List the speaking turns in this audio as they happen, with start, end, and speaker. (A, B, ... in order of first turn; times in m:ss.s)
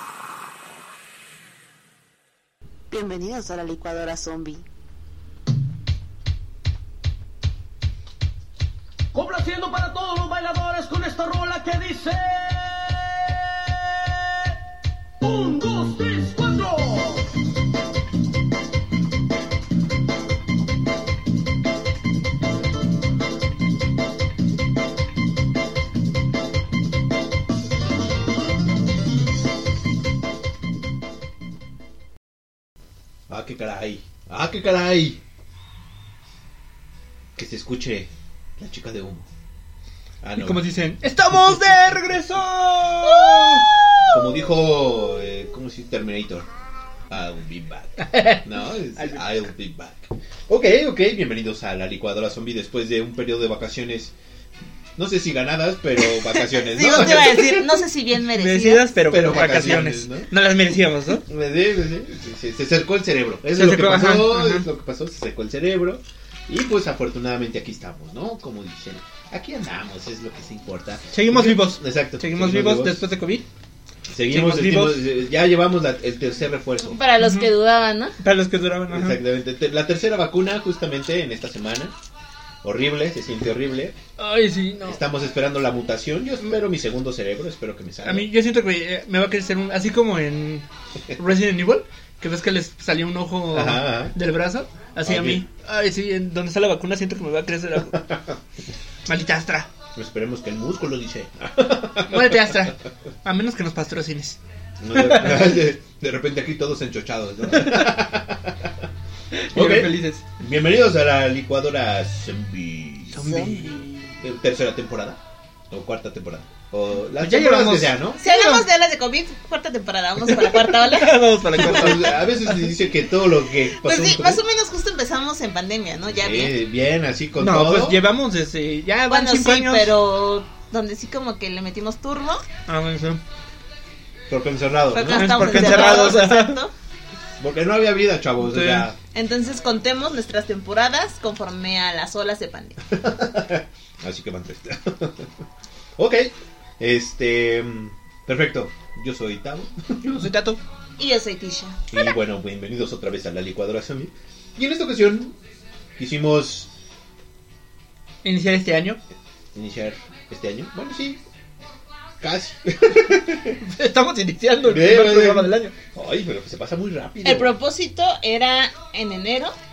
0:02.9-0:04.6 A
0:09.1-0:14.5 B
0:15.2-0:17.3 B
0:33.3-0:35.2 C
0:37.4-0:39.3 C
0:40.2-0:40.6 C
0:40.4-0:44.1 D
0:43.3-0:43.8 A
0:44.1-0:46.5 C
0:47.1-0:54.1 C
0:48.1-0:48.4 D
0:55.0-0:57.8 C
0:56.4-0:58.9 A
0:58.4-1:01.2 D
0:59.1-1:00.3 C
1:01.2-1:13.0 C
1:03.5-1:04.7 D
1:11.1-1:13.5 D
1:14.1-1:17.0 C
1:14.3-1:15.0 D
1:16.8-1:18.2 A
1:17.2-1:17.5 D
1:18.2-1:19.2 D
1:18.9-1:21.9 C
1:22.6-1:24.0 C
1:24.2-1:25.0 D
1:24.8-1:28.3 C
1:28.0-1:38.0 D
1:33.5-1:34.1 C
1:35.0-1:35.4 C
1:37.9-1:38.4 C
1:39.1-1:39.7 D
1:40.0-1:42.7 C
1:42.1-1:44.4 D
1:44.8-1:48.9 C
1:44.9-1:45.6 D
1:49.3-1:50.2 D
1:49.5-1:58.2 C
1:53.1-1:54.2 D
1:57.2-1:58.6 D
1:58.2-2:01.6 A
2:00.3-2:02.7 D
2:01.5-2:04.4 C
2:03.8-2:06.6 A
2:06.1-2:08.0 C
2:07.4-2:09.9 D
2:09.1-2:12.5 A
2:12.7-2:13.2 D
2:14.3-2:16.1 C
2:14.9-2:16.7 A
2:15.1-2:16.6 D
2:17.4-2:19.0 C
2:18.4-2:18.9 D
2:19.1-2:22.8 A
2:22.9-2:25.3 C
2:26.0-2:30.3 C
2:30.0-2:30.6 D
2:31.0-2:31.8 A
2:31.9-2:35.4 C
2:36.0-2:36.7 C
2:38.2-2:39.0 D
2:39.5-2:41.2 C
2:42.2-2:43.6 C
2:43.6-2:45.7 D
2:44.6-2:47.6 C
2:47.2-2:49.6 A